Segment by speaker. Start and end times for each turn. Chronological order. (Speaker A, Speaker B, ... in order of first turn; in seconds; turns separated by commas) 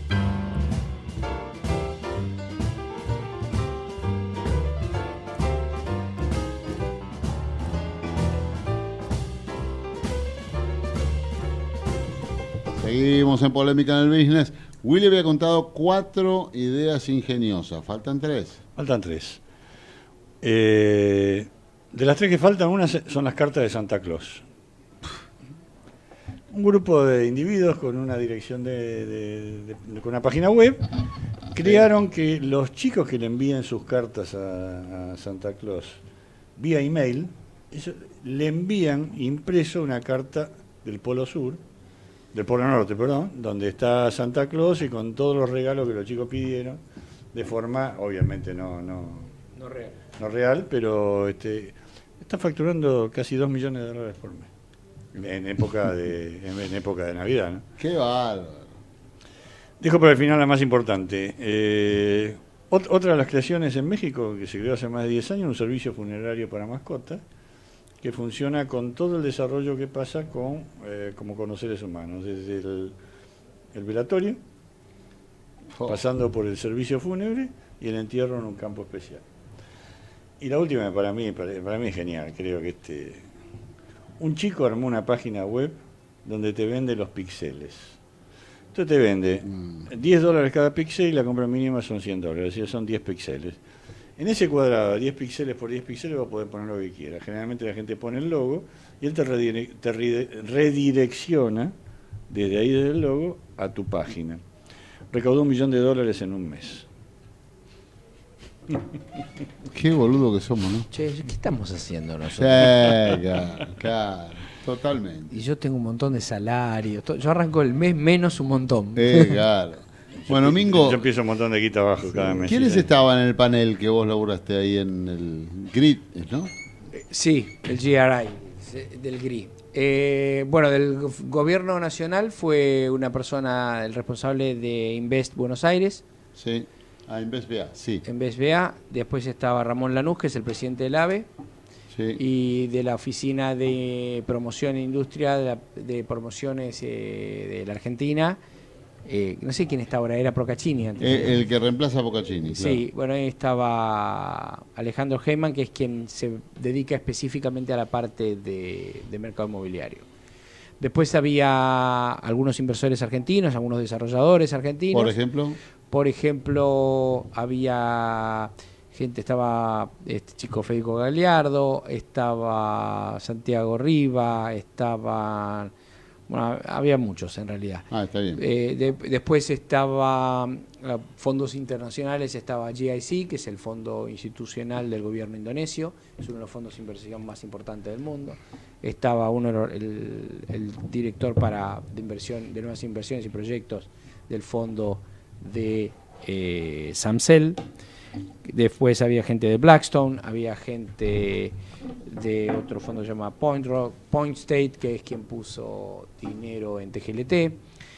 Speaker A: 12.8-18.6, Speaker B: 18.8-19.4, Speaker B: 20.4-24.4, Speaker B: 26.5-30.8, Speaker B: 31.5-36.0, Speaker A: 31.6-31.9, Speaker B: 36.6-41.6, Speaker B: 42.3-46.8, Speaker B: 47.3-49.3, Speaker C: 49.5-50.0, Speaker B: 50.2-54.5, Speaker B: 55.1-57.6, Speaker A: 57.8-58.8, Speaker B: 59.8-67.2, Speaker B: 68.0-72.9, Speaker B: 73.7-74.4, Speaker B: 75.8-79.2, Speaker B: 80.4-83.2, Speaker B: 84.2-88.0, Speaker B: 88.7-93.6, Speaker A: 89.5-89.8, Speaker B: 94.2-101.7, Speaker B: 102.3-104.4, Speaker B: 105.1-106.8, Speaker A: 109.7-110.9, Speaker C: 110.9-112.7, Speaker A: 112.3-115.3, Speaker C: 115.3-119.4, Speaker A: 118.9-121.0, Speaker B: 120.2-122.9, Speaker A: 122.5-126.5, Speaker C: 126.9-136.0, Speaker A: 136.3-138.1, Speaker C: 138.1-141.3, Speaker A: 141.9-142.2, Speaker C: 142.2-148.4, Speaker C: 149.1-151.4, Speaker A: 151.0-152.8, Speaker C: 152.5-160.1, Speaker C: 160.8-165.2, Speaker A: 164.9-165.6, Speaker C: 165.9-175.7, Speaker C: 176.3-197.6, Speaker A: 177.9-178.4, Speaker C: 198.4-207.6